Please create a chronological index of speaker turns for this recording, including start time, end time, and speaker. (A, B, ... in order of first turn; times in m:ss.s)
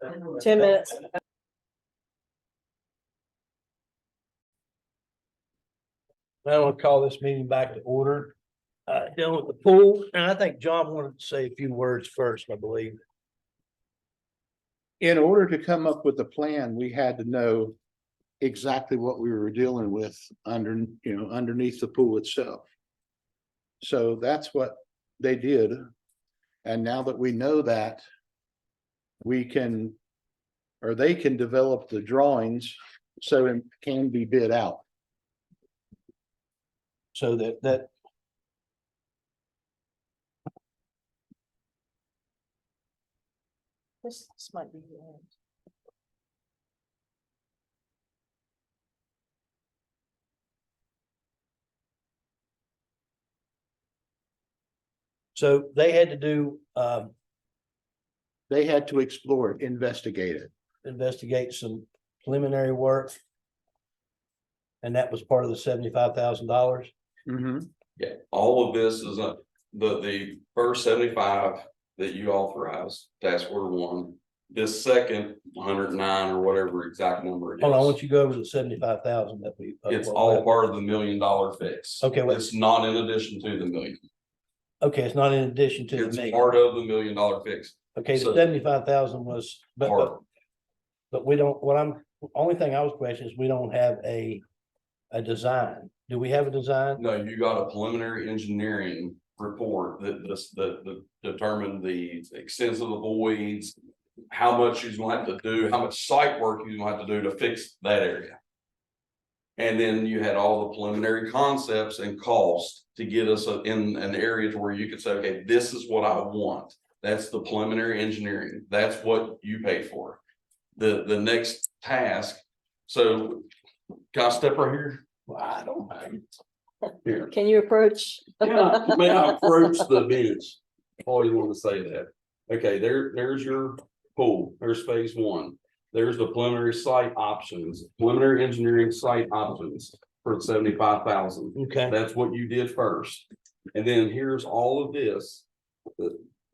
0:00.3-0:01.0 A
0:00.6-0:00.9 B
0:06.4-0:08.4 B
0:08.9-0:13.0 B
0:15.0-0:17.8 C
0:18.4-0:22.6 C
0:23.8-0:25.9 C
0:26.6-0:28.0 C
0:29.2-0:30.0 C
0:30.8-0:34.8 C
0:37.1-0:37.9 B
0:44.0-0:45.3 A
0:55.4-0:57.1 B
0:58.5-1:00.5 C
1:00.8-1:03.2 B
1:04.8-1:06.9 B
1:07.3-1:07.7 C
1:08.0-1:18.0 D
1:17.6-1:20.5 B
1:19.9-1:24.0 D
1:22.0-1:22.5 B
1:24.8-1:26.5 B
1:25.9-1:28.4 D
1:28.0-1:30.2 B
1:29.8-1:30.2 D
1:31.1-1:34.4 B
1:35.1-1:37.0 B
1:37.0-1:43.8 D
1:44.3-1:48.4 D
1:49.6-2:00.2 D
2:00.8-2:03.5 D
2:04.1-2:05.0 D
2:05.3-2:06.2 B
2:07.0-2:07.3 D
2:07.3-2:09.8 A
2:08.4-2:25.4 D
2:21.6-2:22.0 B